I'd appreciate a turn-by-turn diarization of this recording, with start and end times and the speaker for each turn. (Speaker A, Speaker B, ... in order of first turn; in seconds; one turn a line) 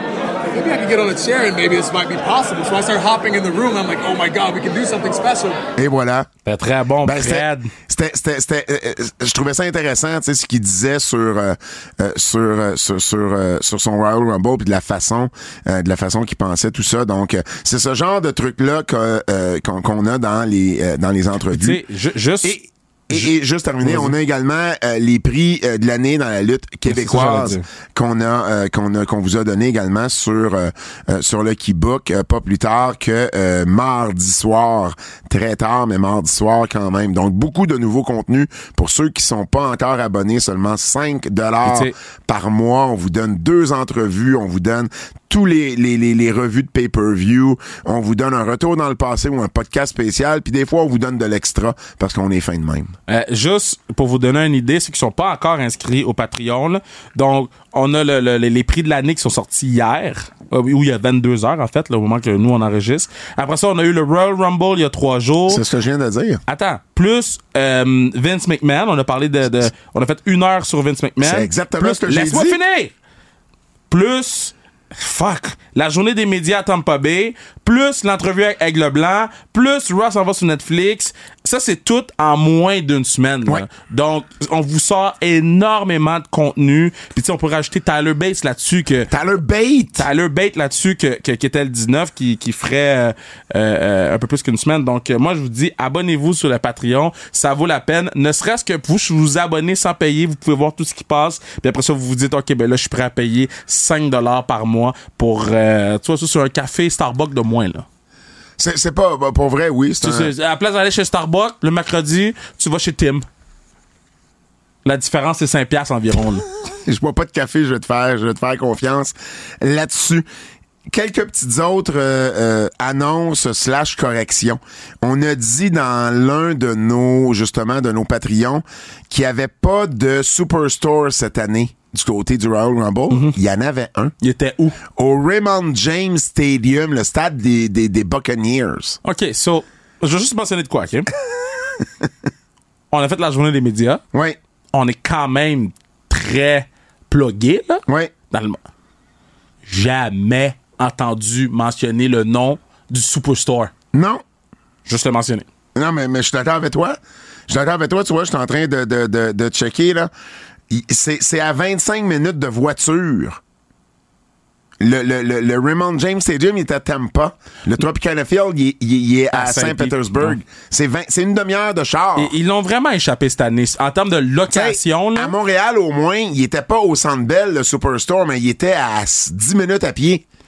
Speaker A: 0.5-5.6
Speaker B: 5.8-6.3
Speaker C: 6.5-7.7
Speaker B: 7.0-21.8
Speaker C: 21.5-22.6
Speaker B: 22.4-53.0
Speaker C: 23.8-24.1
Speaker C: 26.9-27.6
Speaker C: 41.6-41.9
Speaker C: 53.1-65.6
Speaker B: 65.5-66.4
Speaker C: 66.5-72.9
Speaker B: 71.2-72.6
Speaker C: 73.9-89.1
Speaker B: 89.1-90.1
Speaker C: 90.0-107.9
Speaker B: 108.6-110.3
Speaker C: 110.0-113.2
Speaker C: 114.8-116.5
Speaker B: 116.7-120.2
Speaker B: 120.9-134.1
Speaker C: 133.1-133.4
Speaker C: 134.2-134.8
Speaker B: 134.9-139.0
Speaker C: 139.0-141.1
Speaker B: 141.8-142.1
Speaker C: 142.9-144.0
Speaker B: 144.1-144.4
Speaker C: 144.7-148.6
Speaker B: 147.9-148.1
Speaker C: 149.7-153.7
Speaker B: 153.9-154.2
Speaker C: 154.9-155.5
Speaker B: 155.8-160.1
Speaker B: 160.7-163.4
Speaker B: 164.8-172.3
Speaker C: 169.3-170.4
Speaker C: 172.2-175.3
Speaker B: 174.5-180.2